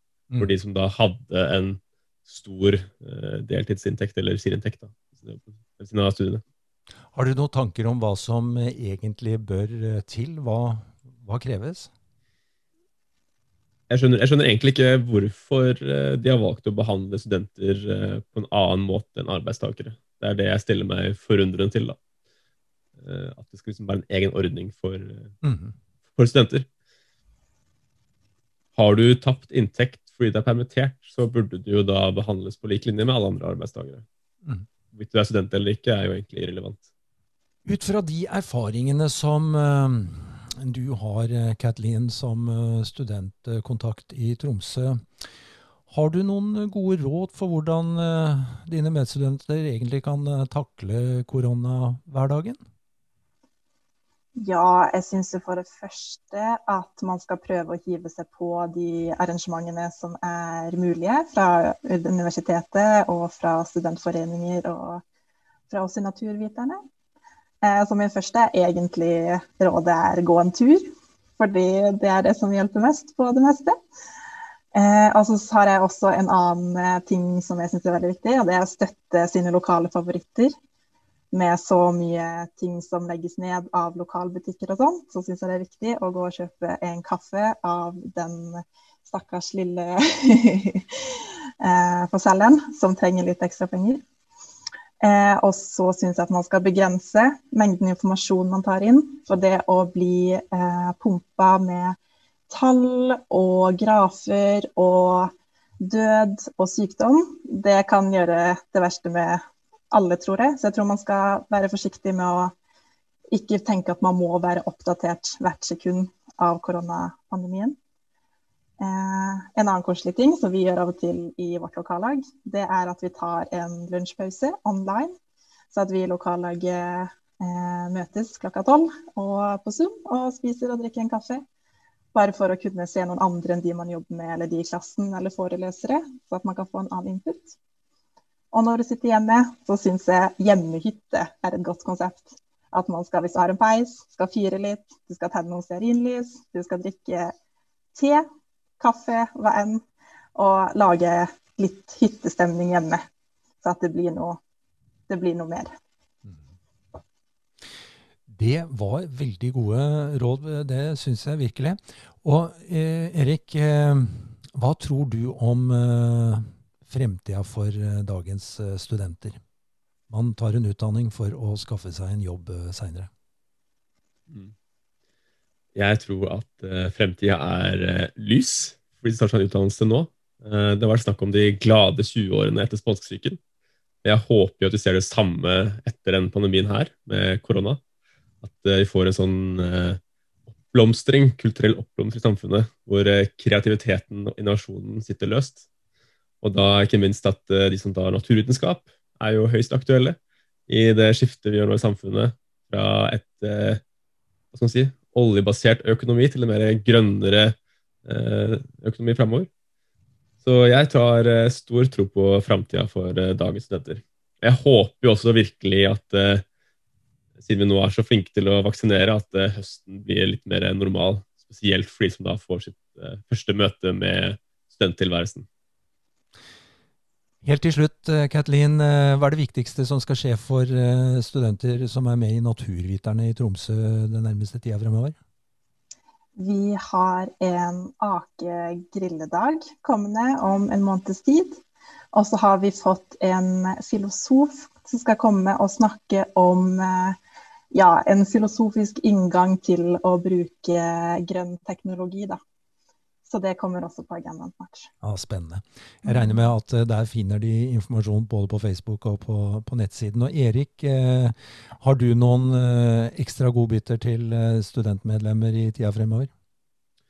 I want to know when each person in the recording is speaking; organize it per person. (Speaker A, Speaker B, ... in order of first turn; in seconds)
Speaker A: 0.4-6.4, 13.9-22.0, 23.0-25.3, 26.1-26.7, 28.8-34.0, 34.9-36.8, 175.8-183.4, 184.0-187.8, 188.4-190.0, 190.7-195.6, 196.4-200.2, 200.7-203.8, 204.5-209.5, 210.4-216.4, 217.4-225.5
Speaker B: 7.1-11.9, 25.4-25.7, 37.6-45.0, 45.9-52.6, 158.3-169.4, 170.1-173.1, 227.4-235.2, 255.0-266.3
Speaker C: 54.4-65.0, 65.7-66.8, 67.6-70.8, 71.4-73.8, 74.7-80.5, 81.3-90.9, 91.6-94.0, 95.0-102.0, 102.5-112.5, 113.3-117.8, 118.8-125.1, 125.7-131.4, 132.1-137.6, 138.5-147.3, 147.9-148.2, 148.8-149.8, 150.3-153.0, 153.6-154.4, 155.1-155.7, 236.3-241.6, 242.1-247.2, 247.7-252.4, 253.2-254.9, 256.0-256.5